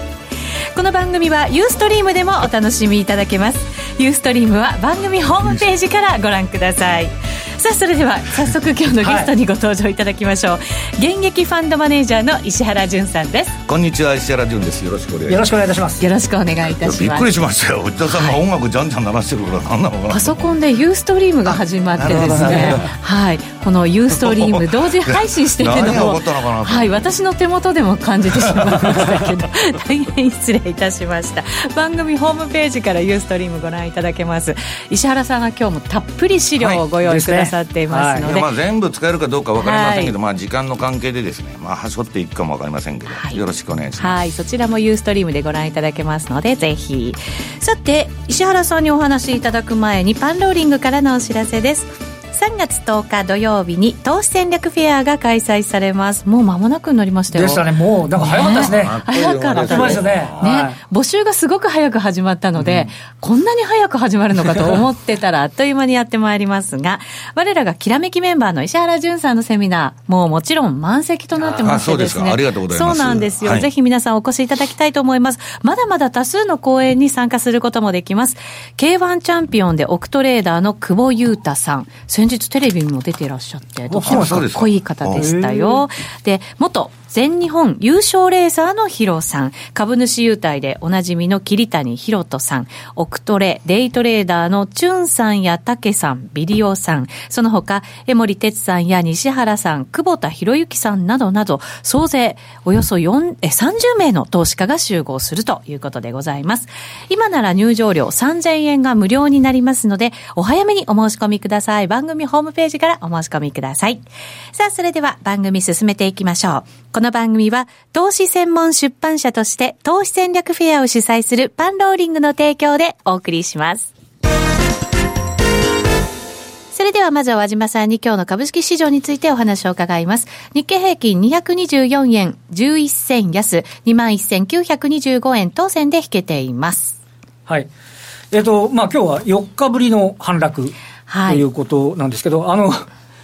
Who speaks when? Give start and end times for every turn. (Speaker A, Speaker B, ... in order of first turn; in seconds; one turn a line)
Speaker A: 0.7-13.6
Speaker B: 9.0-9.3
Speaker C: 13.7-15.5
Speaker B: 15.3-16.0
Speaker A: 16.0-17.3
Speaker C: 16.8-20.5
Speaker A: 18.1-18.4
Speaker A: 20.1-38.5
Speaker C: 21.5-22.9
Speaker B: 22.3-22.7
Speaker C: 24.1-27.1
Speaker C: 28.4-28.8
Speaker B: 37.0-38.3
Speaker C: 38.2-44.2
Speaker A: 39.6-40.1
Speaker A: 43.1-43.4
Speaker A: 44.0-123.9
Speaker B: 57.3-60.8
Speaker C: 58.5-60.5
Speaker B: 62.6-62.9
Speaker C: 71.6-73.7
Speaker B: 83.9-84.5
Speaker C: 84.0-85.3
Speaker B: 85.1-85.8
Speaker A: 126.7-137.0
Speaker B: 138.3-140.7
Speaker A: 141.1-141.4
Speaker B: 141.3-142.9